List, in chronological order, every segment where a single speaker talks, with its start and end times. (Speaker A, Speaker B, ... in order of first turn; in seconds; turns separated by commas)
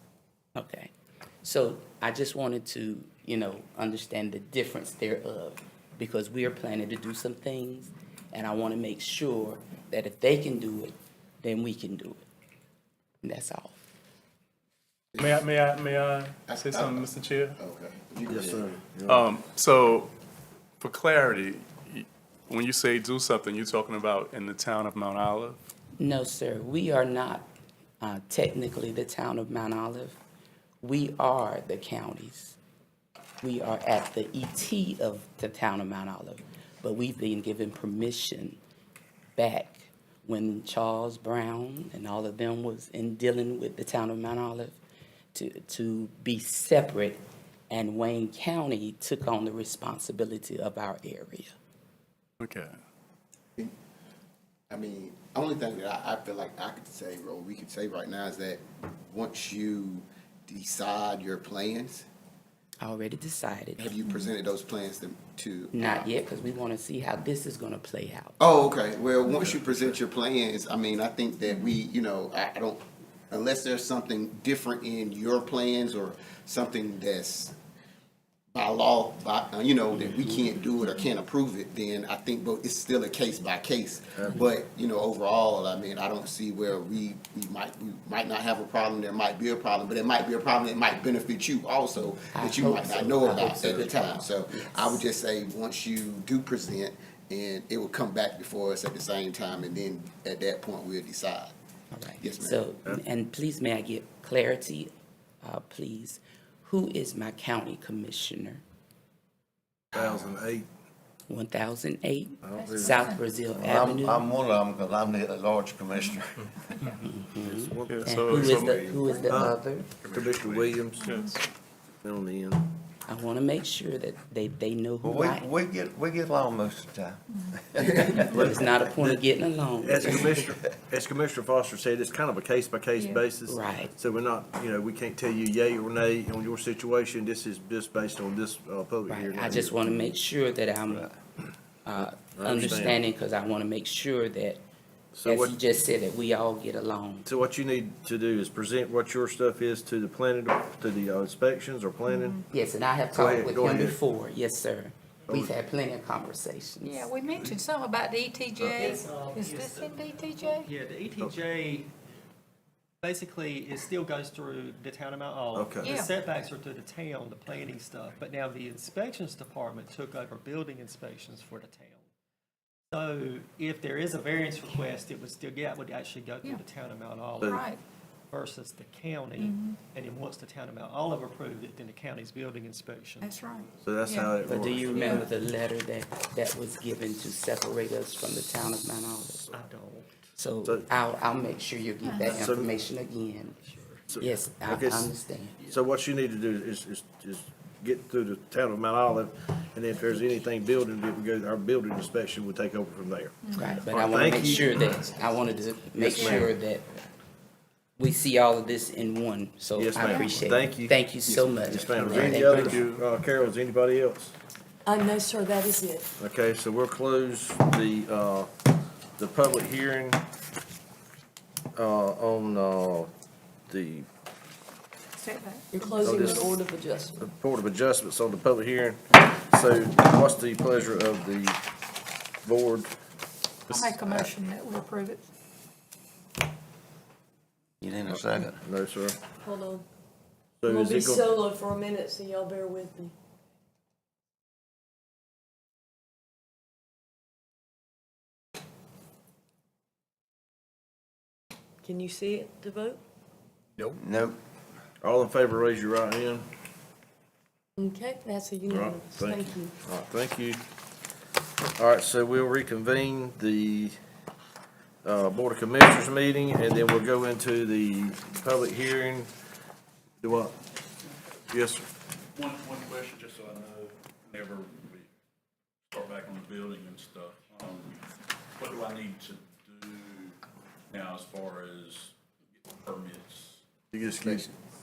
Speaker A: 0.6-0.9, Speaker A: 1.4-10.9, Speaker A: 11.4-12.2, Speaker A: 13.2-13.8, Speaker B: 15.2-17.6, Speaker C: 16.5-18.7, Speaker D: 18.2-19.3, Speaker B: 19.1-20.1, Speaker B: 20.8-25.6, Speaker A: 26.0-27.5, Speaker A: 28.0-30.2, Speaker A: 30.8-32.5, Speaker A: 33.4-38.6, Speaker A: 39.4-44.8, Speaker A: 45.3-47.2, Speaker A: 47.7-51.5, Speaker C: 54.7-62.0, Speaker A: 62.8-63.9, Speaker C: 63.8-66.1, Speaker E: 64.0-64.3, Speaker A: 65.7-68.3, Speaker C: 68.4-77.5, Speaker D: 69.4-69.9, Speaker C: 78.5-101.5, Speaker D: 84.1-84.4, Speaker A: 92.3-95.0, Speaker A: 101.9-104.9, Speaker C: 102.2-102.7, Speaker A: 105.4-108.6, Speaker D: 109.9-110.7, Speaker A: 111.3-114.2, Speaker D: 112.4-113.0, Speaker E: 112.5-113.2, Speaker F: 113.5-116.8, Speaker A: 117.0-119.9, Speaker D: 117.4-118.2, Speaker B: 117.8-118.2, Speaker G: 118.1-118.8, Speaker F: 118.1-119.0, Speaker E: 119.0-119.4, Speaker D: 119.3-121.4, Speaker G: 120.0-120.8, Speaker E: 121.0-121.4, Speaker D: 122.0-122.6, Speaker A: 123.1-125.5, Speaker F: 125.0-128.9, Speaker E: 127.3-127.6, Speaker D: 128.2-129.3, Speaker A: 128.2-130.3, Speaker D: 129.8-139.8, Speaker E: 132.9-133.2, Speaker A: 133.5-133.9, Speaker A: 139.1-141.1, Speaker A: 141.8-144.6, Speaker D: 142.0-143.0, Speaker D: 145.1-145.6, Speaker A: 145.2-147.2, Speaker D: 147.2-152.4, Speaker E: 152.1-152.4, Speaker A: 152.5-157.1, Speaker D: 153.1-154.0, Speaker D: 155.3-155.5, Speaker E: 156.8-160.7, Speaker D: 158.6-158.9, Speaker H: 158.7-161.9, Speaker H: 163.0-172.0, Speaker D: 165.5-165.9, Speaker E: 165.8-166.1, Speaker H: 172.9-177.7, Speaker E: 177.4-177.8, Speaker H: 178.3-183.3, Speaker E: 179.4-179.8, Speaker E: 183.2-184.3, Speaker D: 183.8-185.3, Speaker A: 184.4-189.5, Speaker E: 185.0-185.2, Speaker H: 189.5-190.3, Speaker A: 190.4-193.6, Speaker E: 192.0-192.4, Speaker D: 192.2-192.7, Speaker D: 194.1-205.0, Speaker A: 194.2-195.6, Speaker E: 203.4-203.8, Speaker A: 203.6-206.8, Speaker D: 205.9-206.6, Speaker A: 208.0-212.9, Speaker D: 209.8-214.3, Speaker E: 210.0-210.4, Speaker G: 212.0-213.0, Speaker I: 214.8-216.1, Speaker D: 216.2-218.5, Speaker D: 219.2-220.2, Speaker D: 221.7-223.1, Speaker D: 223.7-224.1, Speaker E: 225.2-226.6, Speaker I: 225.7-227.2, Speaker D: 226.0-226.5, Speaker D: 227.2-231.6, Speaker D: 232.4-232.9, Speaker E: 233.7-235.3, Speaker F: 237.8-238.6, Speaker D: 238.1-239.2, Speaker I: 239.4-239.8, Speaker D: 240.6-241.3, Speaker I: 240.6-243.1, Speaker I: 251.8-253.0, Speaker F: 253.8-254.4, Speaker D: 255.0-256.4, Speaker I: 257.8-259.8, Speaker D: 258.7-260.6, Speaker D: 261.8-264.0, Speaker D: 265.0-269.3, Speaker D: 270.2-270.5, Speaker D: 271.5-271.8, Speaker G: 272.4-275.1, Speaker G: 275.9-278.0, Speaker G: 278.6-280.4, Speaker G: 280.9-282.1, Speaker G: 282.7-283.6, Speaker D: 283.9-284.5